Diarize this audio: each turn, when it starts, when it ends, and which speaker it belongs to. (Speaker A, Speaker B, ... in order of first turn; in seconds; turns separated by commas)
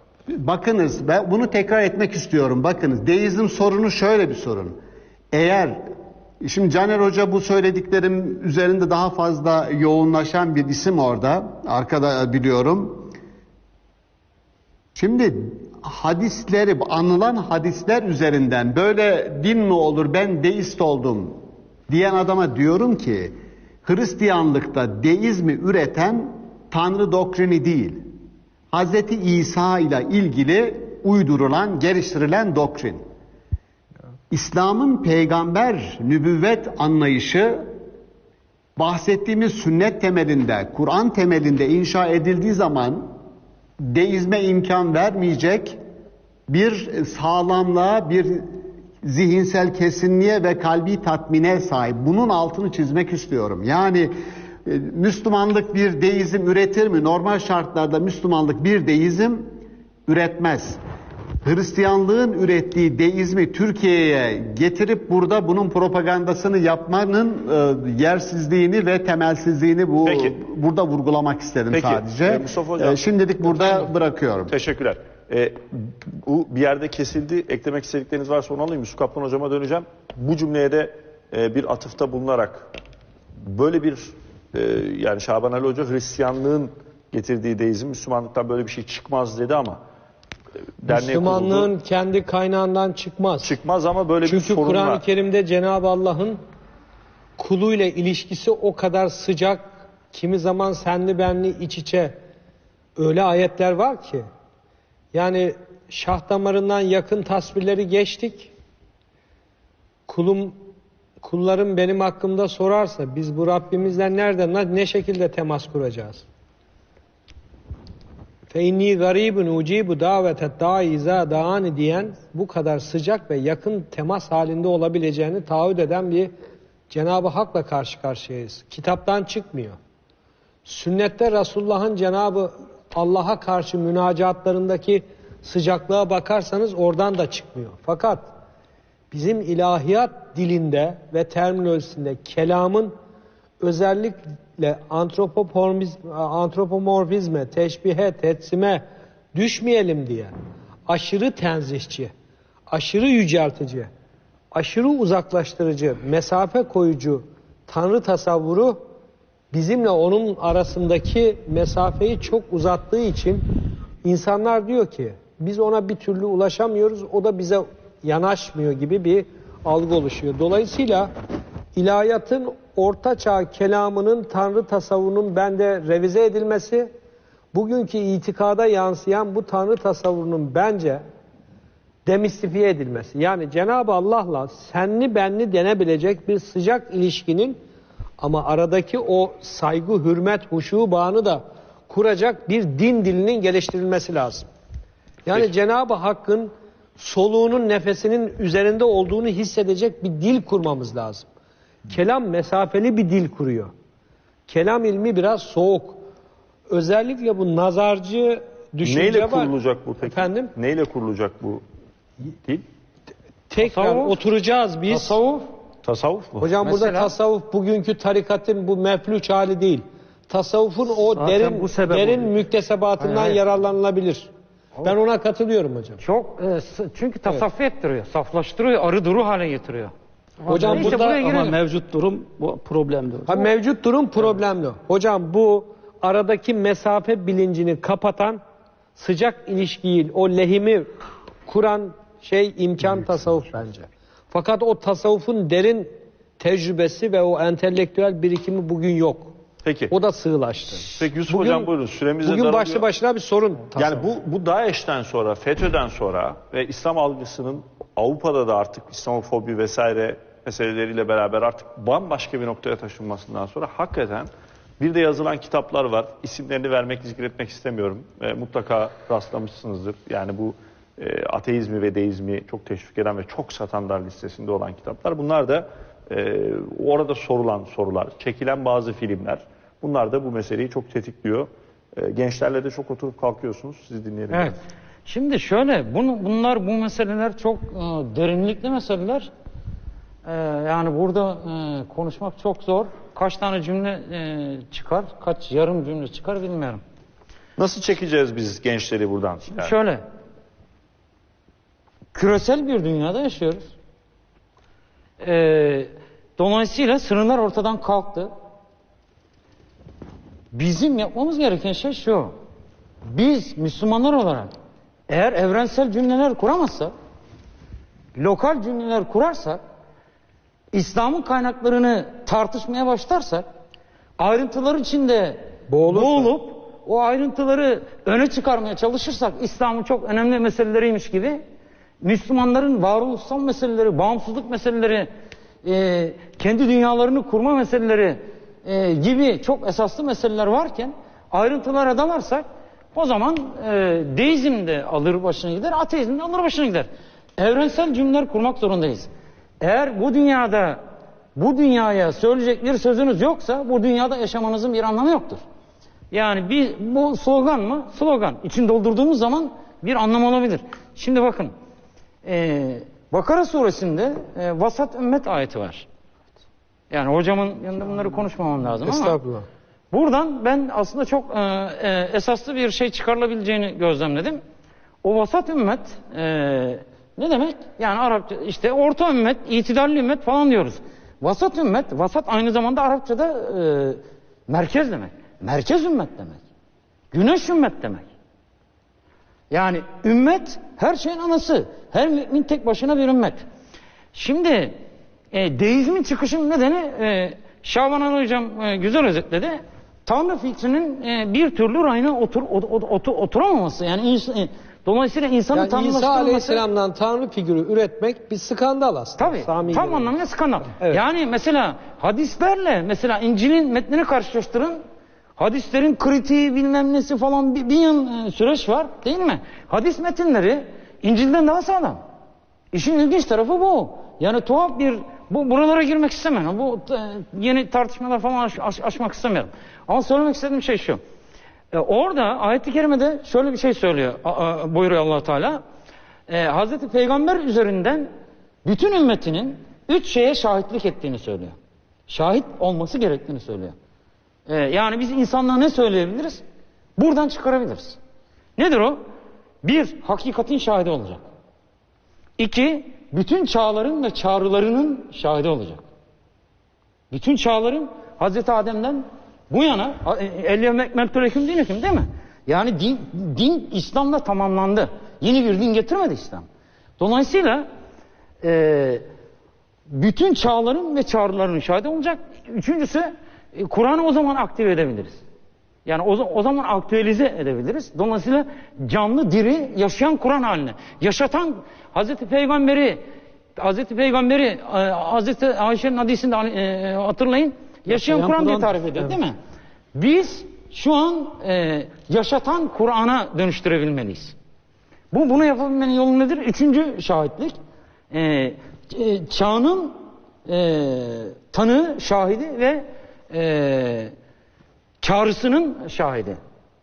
Speaker A: 0.4-4.8, Speaker A: 5.3-5.8, Speaker A: 6.4-13.1, Speaker A: 14.9-21.4, Speaker A: 21.9-23.3, Speaker A: 23.9-28.0, Speaker A: 28.7-33.0, Speaker A: 34.3-37.7, Speaker A: 38.8-43.1, Speaker A: 43.8-45.8, Speaker A: 46.5-54.1, Speaker A: 54.7-59.5, Speaker A: 60.1-60.8, Speaker A: 61.4-74.5, Speaker B: 70.0-70.4, Speaker B: 71.7-73.9, Speaker B: 74.5-75.6, Speaker B: 76.3-82.7, Speaker B: 83.4-89.8, Speaker B: 90.8-91.7, Speaker C: 90.9-93.5, Speaker B: 93.4-95.0, Speaker C: 94.2-96.4, Speaker C: 97.4-102.2, Speaker C: 103.0-104.3, Speaker C: 105.1-108.5, Speaker C: 110.1-110.6, Speaker C: 111.2-116.3, Speaker C: 118.5-126.3, Speaker C: 126.9-129.8, Speaker C: 130.7-138.3, Speaker C: 139.1-142.9, Speaker C: 143.6-148.8, Speaker C: 149.3-150.3, Speaker C: 150.9-152.1, Speaker C: 152.7-153.9, Speaker C: 154.5-158.8, Speaker C: 159.5-163.4, Speaker C: 164.0-171.1, Speaker C: 171.8-176.9, Speaker C: 177.5-181.0, Speaker C: 182.1-187.6, Speaker C: 188.2-194.5, Speaker C: 195.3-201.3, Speaker C: 201.9-203.7, Speaker C: 204.5-206.0, Speaker C: 206.7-210.5, Speaker B: 208.8-211.6, Speaker C: 213.5-215.2, Speaker D: 213.6-214.2, Speaker D: 214.9-215.4, Speaker B: 215.8-216.5, Speaker C: 216.4-224.3, Speaker D: 216.6-217.1, Speaker E: 221.4-222.1, Speaker C: 224.8-226.0, Speaker D: 226.0-229.9, Speaker C: 230.5-231.2, Speaker D: 230.5-231.7, Speaker E: 231.5-233.3, Speaker C: 233.3-238.4, Speaker C: 239.0-240.9, Speaker C: 241.5-249.3, Speaker B: 249.6-249.9, Speaker C: 249.9-251.7, Speaker B: 250.9-252.8, Speaker C: 252.2-254.1, Speaker B: 253.8-284.6, Speaker D: 284.3-289.3, Speaker D: 290.3-296.8, Speaker B: 297.6-299.7, Speaker D: 299.5-300.0, Speaker D: 302.1-303.7, Speaker D: 305.2-308.3, Speaker D: 310.5-312.3, Speaker D: 313.1-314.5, Speaker D: 315.1-316.9, Speaker D: 318.1-319.6, Speaker D: 320.7-323.4, Speaker D: 324.2-331.4, Speaker C: 325.7-326.3, Speaker D: 332.0-335.1, Speaker D: 335.6-349.1, Speaker D: 349.6-350.8, Speaker D: 351.4-355.4, Speaker D: 356.1-361.5, Speaker D: 362.2-365.9, Speaker D: 366.9-369.2, Speaker C: 368.8-369.5, Speaker D: 369.9-374.4, Speaker D: 375.0-386.4, Speaker D: 387.1-388.1, Speaker D: 389.5-393.4, Speaker D: 394.1-394.7, Speaker D: 395.3-406.6, Speaker C: 405.5-410.1, Speaker D: 409.2-414.8, Speaker D: 415.4-422.0, Speaker D: 422.7-431.0, Speaker D: 431.7-435.6, Speaker D: 436.3-438.1, Speaker D: 438.6-441.6, Speaker D: 442.1-443.8, Speaker D: 444.5-446.4, Speaker D: 447.0-448.0, Speaker D: 448.6-449.0, Speaker D: 449.6-451.2, Speaker D: 452.4-455.8, Speaker D: 457.1-466.5, Speaker D: 467.0-467.7, Speaker D: 468.4-469.1, Speaker D: 469.9-475.2, Speaker D: 475.9-483.0, Speaker D: 483.6-489.4, Speaker C: 487.9-489.1, Speaker D: 489.9-494.4, Speaker D: 495.1-497.5, Speaker D: 498.1-499.9, Speaker D: 500.5-504.1, Speaker D: 505.0-506.4